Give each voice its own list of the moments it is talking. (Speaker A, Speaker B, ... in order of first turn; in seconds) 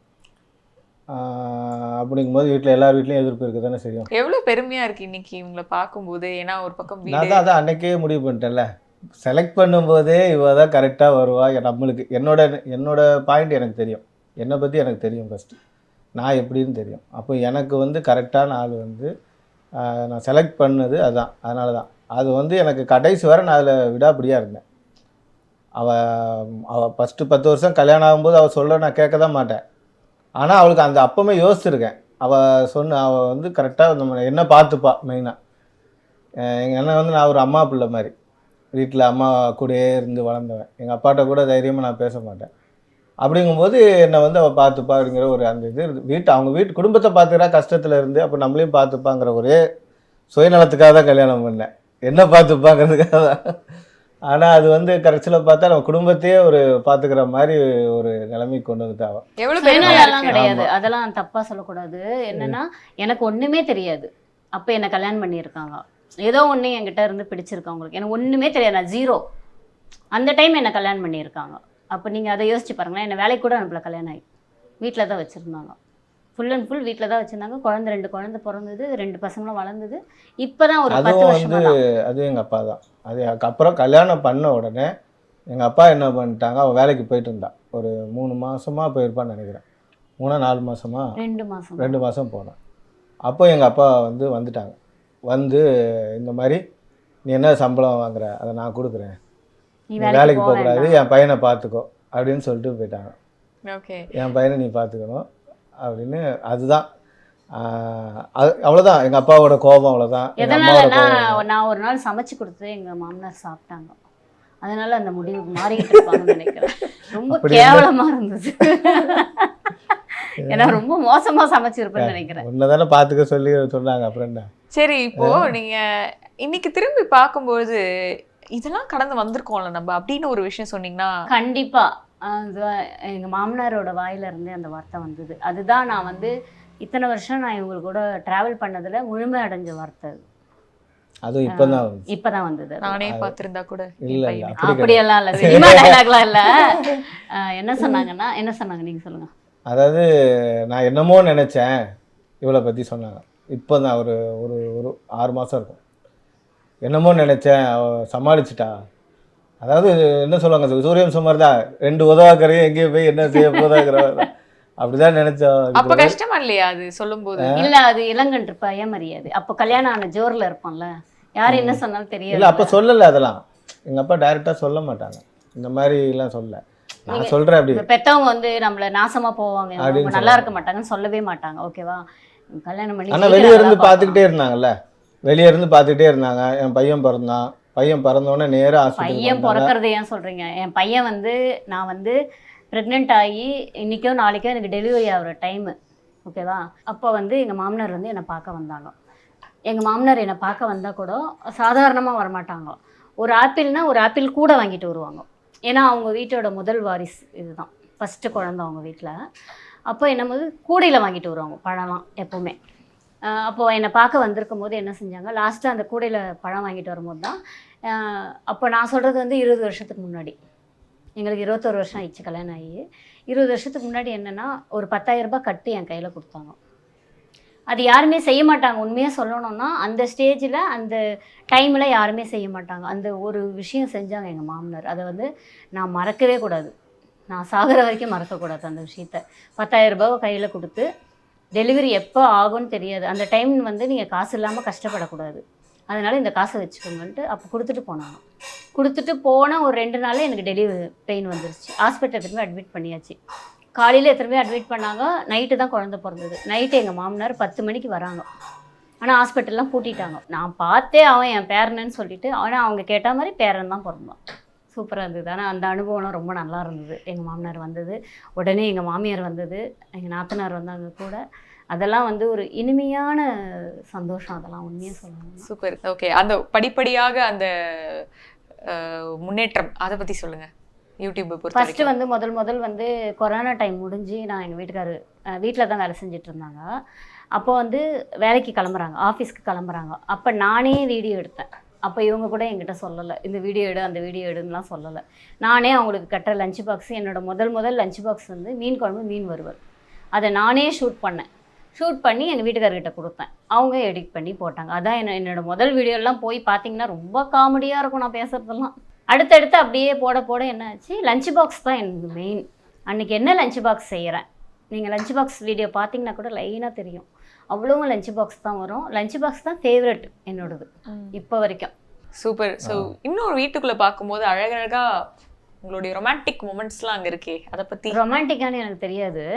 Speaker A: 1.1-4.1, 7.1-8.7, 9.2-15.6, 16.2-19.1, 19.8-24.6, 25.8-29.6, 30.4-35.4, 36.4-38.1, 38.8-42.5, 43.2-49.6, 50.3-53.6, 54.3-59.2, 59.8-60.7, 80.9-84.9, 85.5-89.6, 90.2-91.1, 91.8-92.5, 93.2-94.8, 95.3-95.6, 96.2-96.6, 97.3-99.2, 100.0-103.1, 104.1-105.2, 105.8-106.9, 107.5-111.4, 117.3-117.9, 120.4-120.8, 122.0-124.5, 125.2-125.5, 141.2-142.1, 143.1-143.3, 144.0-146.2, 146.7-147.0, 149.7-150.1, 150.7-151.8, 152.4-155.8, 156.8-158.8, 159.6-164.3, 164.8-166.2, 167.4-167.7, 171.5-177.8, 179.8-180.5, 183.1-184.7, 185.2-189.7, 322.6-322.9
Speaker B: 4.1-7.4, 59.4-60.5, 103.7-104.1, 124.7-131.1, 142.8-145.9, 165.7-167.6, 275.5-278.1, 278.6-280.5, 281.0-281.9, 322.2-324.9, 325.6-328.0
Speaker C: 59.6-69.2, 70.1-74.2, 74.8-75.8, 76.4-81.7, 91.2-92.0, 99.9-101.0, 110.4-113.9, 114.6-119.7, 120.2-122.4, 131.3-140.2, 141.5-143.0, 144.6-149.3, 163.3-164.2, 167.6-172.8, 177.1-184.2, 189.0-192.2, 192.7-195.7, 196.2-198.9, 199.7-209.2, 209.9-212.6, 213.3-217.4, 217.9-220.3, 221.2-226.5, 227.7-231.0, 231.5-236.7, 237.3-240.9, 241.6-248.2, 248.8-253.2, 253.8-258.2, 259.0-264.2, 264.7-275.5, 281.5-286.6, 287.4-299.6, 300.1-321.7, 327.9-329.2